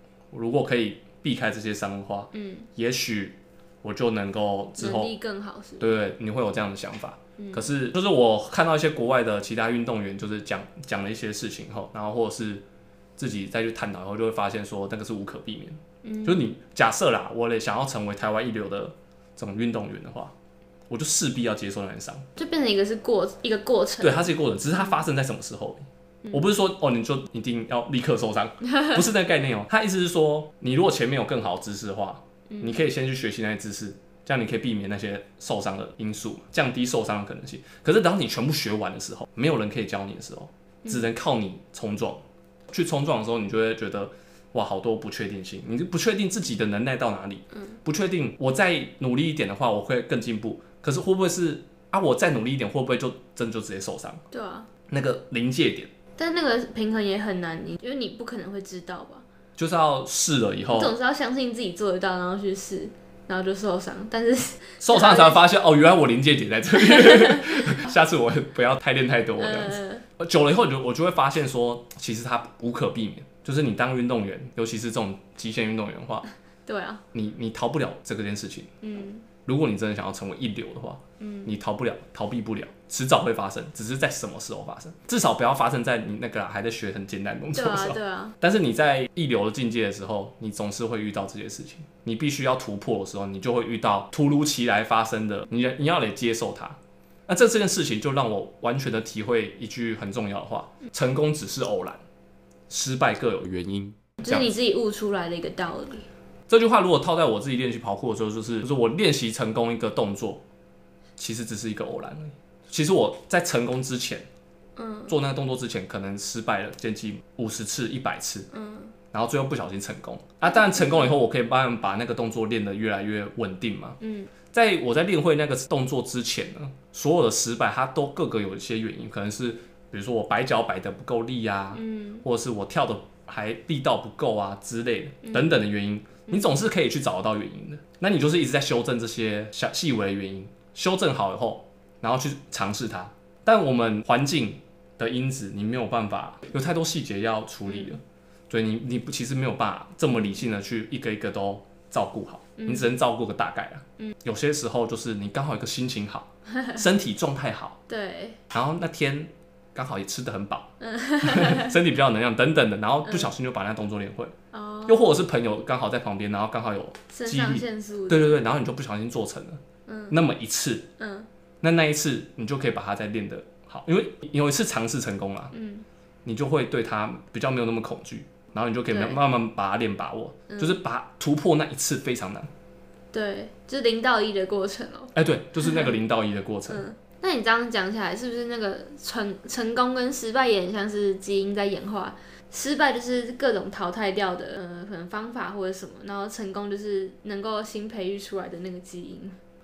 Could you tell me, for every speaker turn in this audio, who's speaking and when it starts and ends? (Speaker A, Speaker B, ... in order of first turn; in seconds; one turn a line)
Speaker A: 0.3-5.1
Speaker B: 2.3-2.7
Speaker B: 4.8-5.9
Speaker A: 5.8-12.6
Speaker B: 7.4-7.7
Speaker A: 13.2-20.3
Speaker B: 16.0-16.5
Speaker A: 20.9-22.2
Speaker B: 22.4-24.3
Speaker A: 24.0-54.2
Speaker B: 28.7-29.0
Speaker B: 32.5-32.8
Speaker B: 54.3-54.7
Speaker A: 54.9-55.9
Speaker B: 56.2-59.2
Speaker A: 59.6-60.9
Speaker B: 60.7-65.4
Speaker A: 64.8-76.3
Speaker B: 66.8-67.8
Speaker B: 69.4-70.0
Speaker B: 76.7-77.0
Speaker A: 77.1-78.7
Speaker B: 78.8-79.3
Speaker A: 79.4-102.0
Speaker B: 81.2-81.5
Speaker B: 87.5-88.3
Speaker A: 102.7-104.5
Speaker B: 104.2-106.1
Speaker A: 106.5-110.4
Speaker A: 111.2-114.2
Speaker B: 114.8-115.1
Speaker A: 115.1-118.5
Speaker B: 118.5-118.9
Speaker A: 119.1-124.0
Speaker B: 120.4-121.2
Speaker B: 124.0-124.3
Speaker A: 124.5-157.8
Speaker B: 131.7-132.2
Speaker B: 135.2-135.6
Speaker B: 147.7-148.0
Speaker B: 152.6-152.9
Speaker B: 157.9-158.4
Speaker A: 158.5-164.3
Speaker B: 160.8-161.7
Speaker B: 164.5-165.2
Speaker A: 164.8-170.9
Speaker B: 167.1-168.4
Speaker B: 169.8-170.2
Speaker B: 171.0-171.3
Speaker A: 171.6-175.5
Speaker B: 175.5-175.8
Speaker A: 176.2-182.5
Speaker B: 178.9-179.2
Speaker B: 180.5-180.8
Speaker B: 183.1-185.9
Speaker A: 185.1-186.8
Speaker B: 186.7-199.4